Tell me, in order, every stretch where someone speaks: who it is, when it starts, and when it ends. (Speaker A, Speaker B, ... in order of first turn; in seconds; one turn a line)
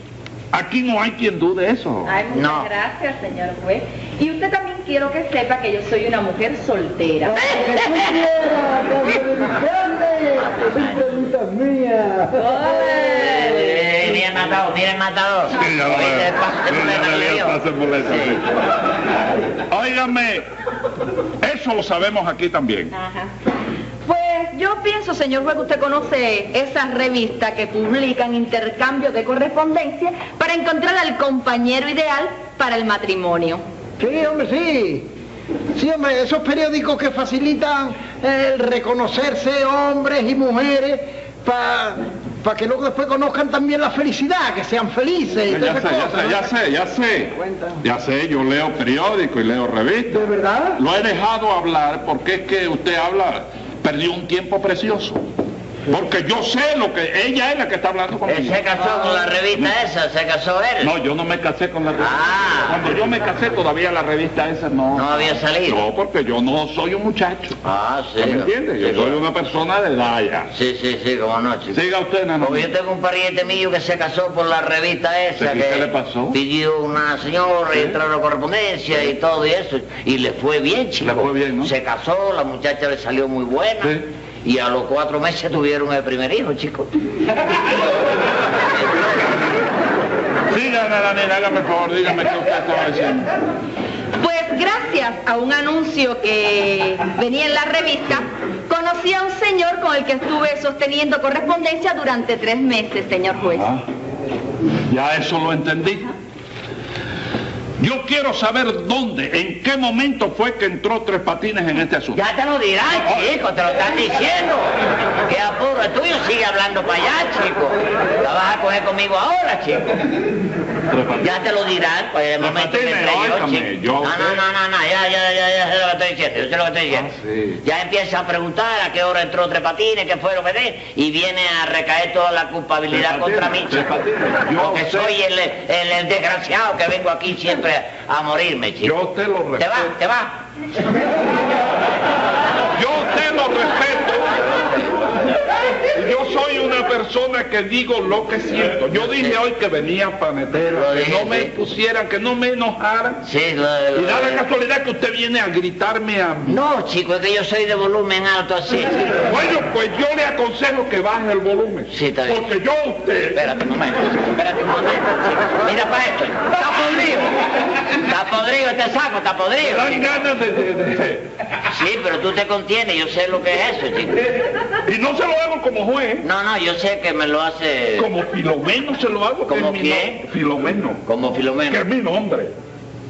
Speaker A: 0.5-2.1
Speaker B: 2.0-7.5
Speaker C: 2.3-2.7
Speaker D: 7.2-12.9
Speaker C: 7.4-8.2
Speaker C: 10.4-11.0
Speaker B: 12.3-13.8
Speaker C: 12.9-18.4
Speaker A: 15.6-18.5
Speaker A: 19.7-20.4
Speaker A: 21.4-22.9
Speaker B: 22.9-23.3
Speaker B: 24.1-33.6
Speaker D: 34.0-35.1
Speaker D: 35.8-46.5
Speaker A: 45.5-55.2
Speaker D: 47.4-47.8
Speaker D: 50.1-50.8
Speaker A: 55.9-59.7
Speaker C: 58.3-60.9
Speaker A: 60.8-67.6
Speaker C: 62.0-62.8
Speaker C: 64.9-65.8
Speaker C: 67.6-69.2
Speaker A: 68.2-70.5
Speaker C: 70.5-71.8
Speaker A: 71.7-72.7
Speaker C: 72.4-86.9
Speaker A: 75.4-76.4
Speaker A: 81.0-81.7
Speaker A: 90.5-93.3
Speaker B: 94.2-103.7
Speaker A: 103.5-103.8
Speaker A: 104.9-106.1
Speaker A: 107.8-112.2
Speaker C: 112.1-114.7
Speaker A: 112.9-113.4
Speaker C: 115.2-119.9
Speaker A: 120.9-121.3
Speaker C: 121.2-127.1
Speaker A: 122.4-124.4
Speaker A: 126.9-127.6
Speaker C: 127.6-133.9
Speaker A: 132.9-135.2
Speaker C: 134.6-139.0
Speaker A: 138.8-139.9
Speaker C: 139.6-140.4
Speaker A: 142.8-144.4
Speaker A: 145.9-153.2
Speaker C: 148.9-149.4
Speaker C: 150.6-151.5
Speaker C: 153.2-154.4
Speaker A: 153.9-156.6
Speaker C: 156.5-159.2
Speaker A: 159.1-163.4
Speaker C: 161.9-162.4
Speaker C: 163.3-167.3
Speaker C: 168.0-170.1
Speaker A: 169.6-171.3
Speaker C: 171.7-174.3
Speaker A: 174.8-176.3
Speaker C: 176.2-178.1
Speaker A: 178.0-181.0
Speaker C: 179.5-180.2
Speaker C: 181.1-181.8
Speaker A: 181.7-182.5